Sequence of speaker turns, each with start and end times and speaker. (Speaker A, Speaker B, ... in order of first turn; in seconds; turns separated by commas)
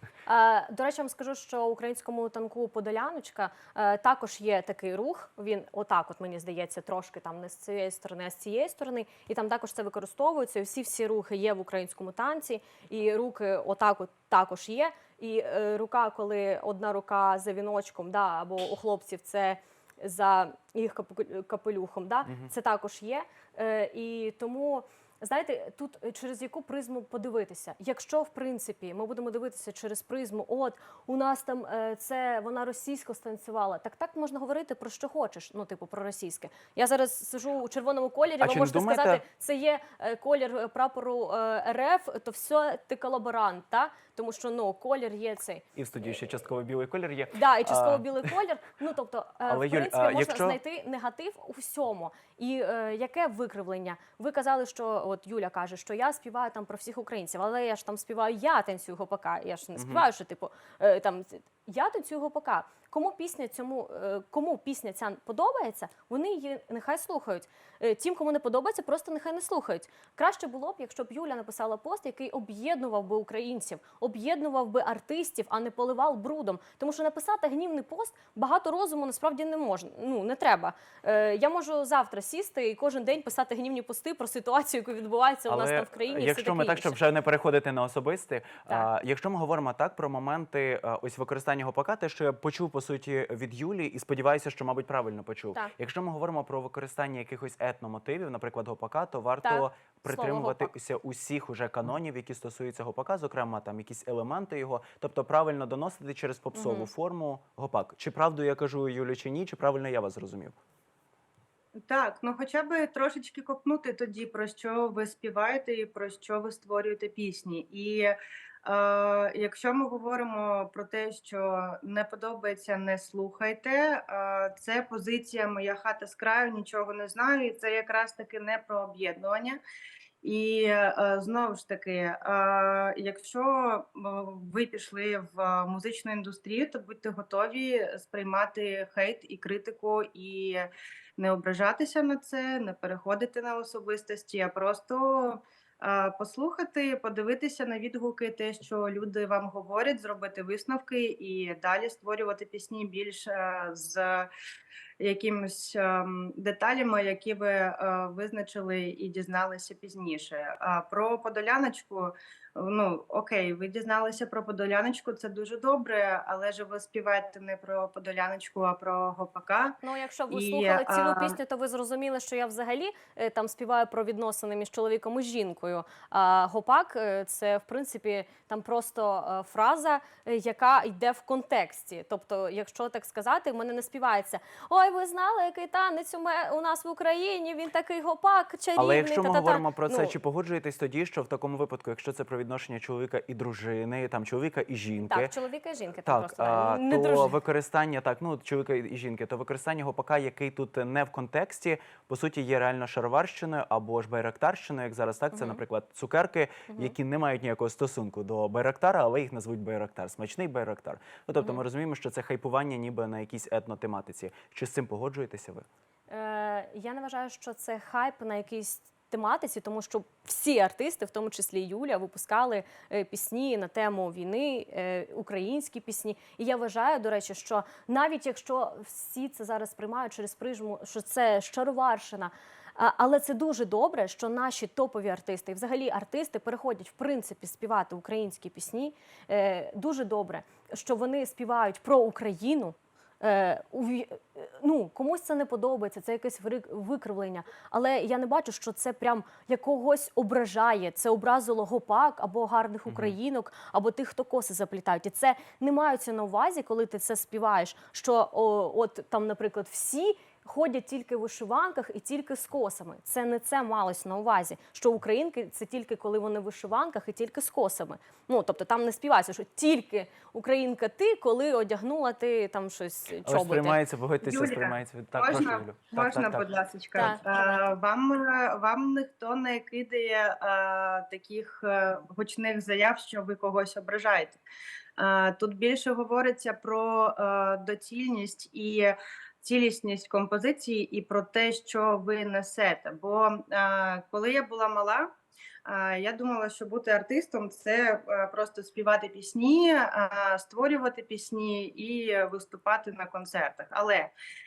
Speaker A: 0.2-45.6, Speaker B: 22.2-22.5, Speaker B: 38.4-39.2, Speaker B: 45.7-48.3, Speaker A: 47.3-87.0, Speaker B: 49.5-50.6, Speaker B: 59.8-60.0, Speaker B: 85.5-110.5, Speaker A: 99.4-100.7, Speaker A: 106.5-106.9, Speaker C: 111.8-129.6, Speaker C: 130.2-154.3, Speaker C: 155.0-169.8, Speaker A: 169.8-190.1, Speaker C: 170.3-171.4, Speaker B: 188.8-195.3, Speaker A: 195.0-197.4, Speaker B: 196.0-215.7, Speaker A: 205.3-205.6, Speaker A: 216.1-273.8, Speaker B: 252.9-253.1, Speaker B: 273.2-276.4, Speaker C: 274.2-284.4, Speaker A: 276.9-277.7, Speaker C: 285.0-295.1, Speaker C: 295.6-304.1